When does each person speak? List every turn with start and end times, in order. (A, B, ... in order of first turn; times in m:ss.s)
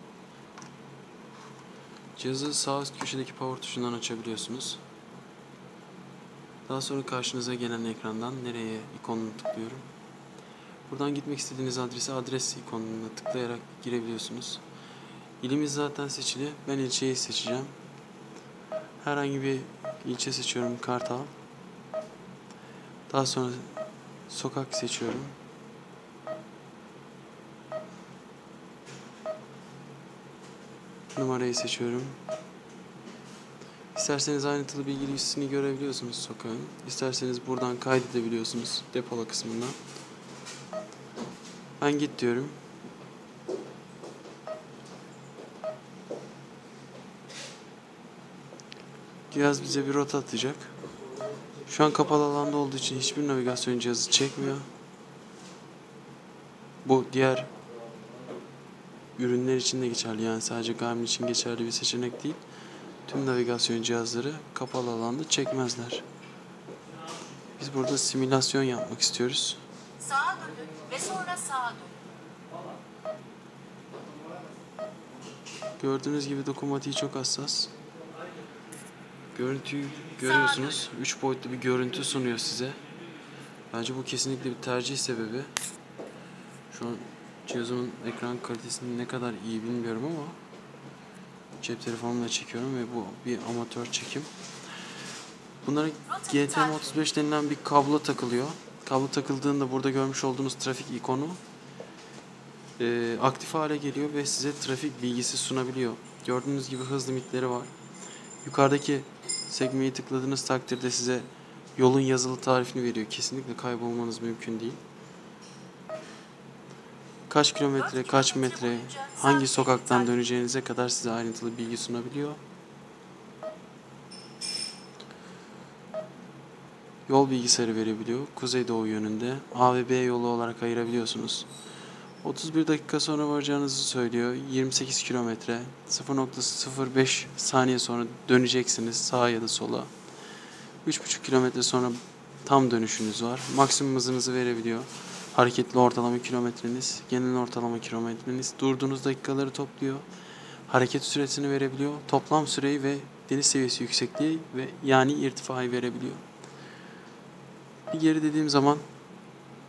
0:02.2-0:04.8 A
0:06.7-0:09.9 A
0:10.9-0:14.6 A
0:15.4-0:17.7 A
0:19.0-0:21.3 A
0:23.1-0:23.8 A
0:24.3-0:25.3 A
0:31.1-0:32.2 A
0:33.9-0:39.8 A
0:41.8-0:42.6 A
0:49.3-0:50.7 A
0:51.6-0:54.7 A
0:56.8-0:57.5 A
0:59.2-1:02.4 A
1:03.1-1:06.0 A
1:07.6-1:09.6 A
1:10.0-1:11.9 B
1:15.8-1:17.7 A
1:19.3-1:22.8 A
1:20.3-1:20.7 B
1:23.7-1:25.5 A
1:26.7-1:30.4 A
1:31.6-1:34.3 A
1:35.6-1:41.4 A
1:36.2-1:36.5 B
1:42.8-1:47.7 A
1:48.4-1:54.8 A
1:57.3-2:02.4 A
1:57.9-2:00.0 B
2:07.1-2:11.5 A
2:12.2-2:19.9 A
2:20.8-2:30.0 A
2:30.7-2:36.2 A
2:37.9-2:38.8 A